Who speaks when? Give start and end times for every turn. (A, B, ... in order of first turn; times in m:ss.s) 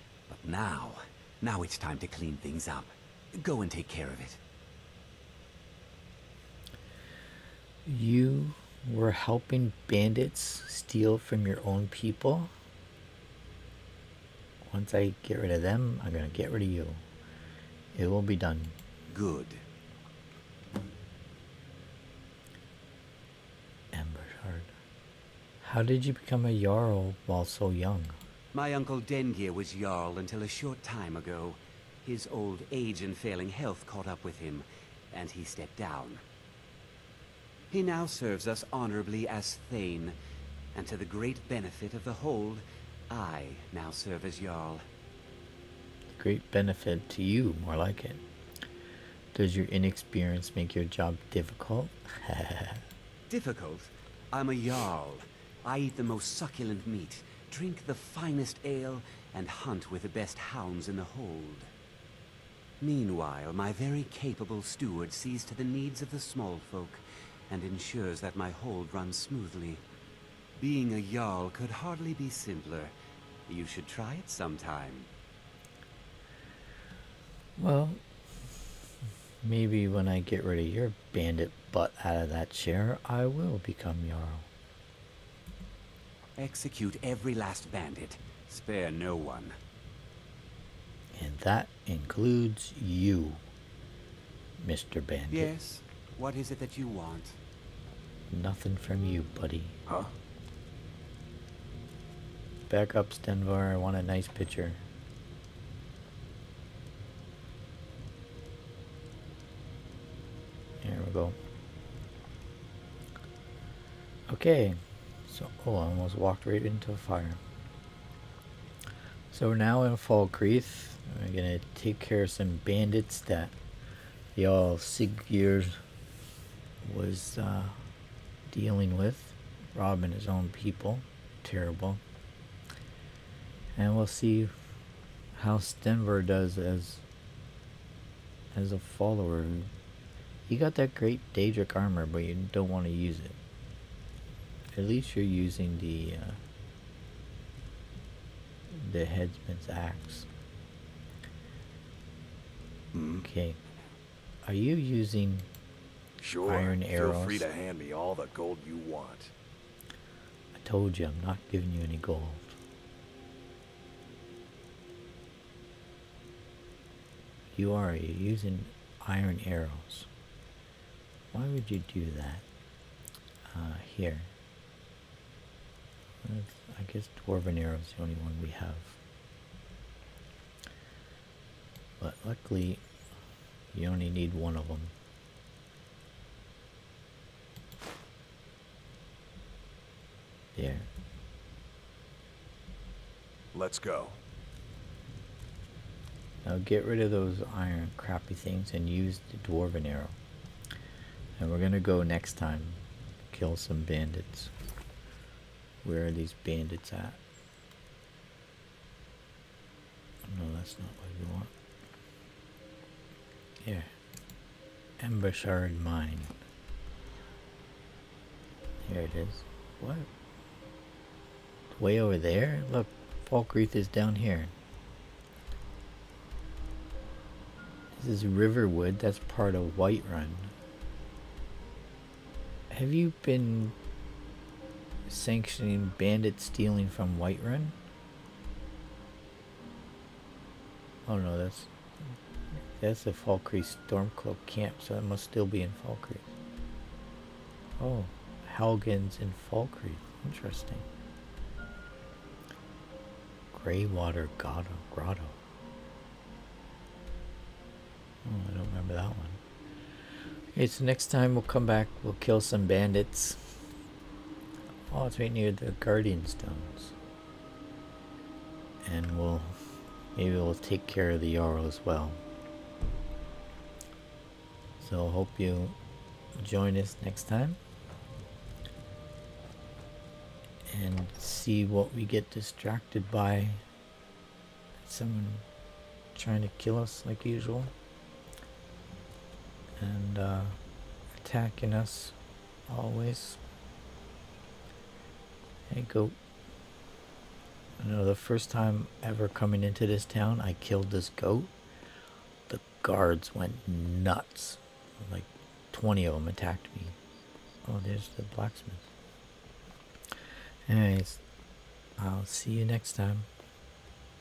0:00.3-0:04.4 A
0:07.9-0:12.5 B
0:14.6-0:17.0 B
0:17.9-0:18.8 B
0:19.1-0:19.6 A
0:23.9-0:24.7 B
0:25.6-0:28.2 B
0:28.5-0:36.2 A
0:37.7-0:40.2 A
0:40.8-0:44.8 A
0:46.2-0:48.2 B
0:49.3-0:52.9 B
0:53.3-1:01.7 A
1:02.8-1:09.8 A
1:10.6-1:12.9 A
1:13.5-1:15.1 A
1:17.6-1:18.0 B
1:19.4-1:24.5 B
1:26.4-1:29.6 A
1:31.1-1:33.4 B
1:34.6-1:35.5 B
1:35.3-1:37.4 A
1:38.3-1:39.8 B
1:42.7-1:44.8 B
1:50.8-1:51.4 B
1:54.3-1:57.4 B
1:59.3-2:03.6 B
2:04.4-2:05.8 B
2:06.8-2:07.8 B
2:08.5-2:12.0 B
2:13.7-2:14.6 B
2:15.4-2:17.0 B
2:18.5-2:19.7 B
2:20.5-2:23.4 B
2:24.7-2:26.4 B
2:28.7-2:30.3 B
2:32.9-2:33.2 C
2:33.2-2:33.6 B
2:34.4-2:35.5 B
2:36.2-2:39.3 C
2:36.4-2:37.5 B
2:40.5-2:42.6 B
2:47.6-2:50.1 B
2:51.3-2:52.4 B
2:53.5-2:54.3 B
2:56.2-2:59.0 B
3:02.0-3:02.8 B
3:03.7-3:04.9 B
3:10.6-3:10.9 B
3:13.5-3:14.2 C
3:16.4-3:20.2 B
3:21.4-3:22.8 B
3:23.3-3:24.5 B
3:25.8-3:27.2 B
3:30.2-3:31.5 B
3:33.6-3:33.9 B
3:35.0-3:36.4 B
3:38.8-3:40.1 B
3:41.7-3:44.5 B
3:47.9-3:50.5 B
3:52.7-3:53.8 B
3:55.1-3:57.8 B
4:01.1-4:01.7 B
4:02.7-4:06.3 B
4:07.8-4:10.9 B
4:13.5-4:15.4 B
4:18.2-4:19.4 B
4:20.5-4:23.6 B
4:24.9-4:26.9 B
4:28.8-4:29.6 B
4:30.2-4:32.2 B
4:34.8-4:35.8 B
4:36.4-4:37.6 B
4:40.7-4:43.6 B
4:44.8-4:45.4 B
4:46.2-4:47.7 B
4:49.8-4:50.6 B
4:51.2-4:52.2 B
4:52.7-4:53.4 B
4:55.7-4:56.2 B
4:57.8-5:01.5 B
5:02.5-5:07.0 B
5:07.6-5:08.9 B
5:10.7-5:11.2 B
5:12.0-5:13.3 B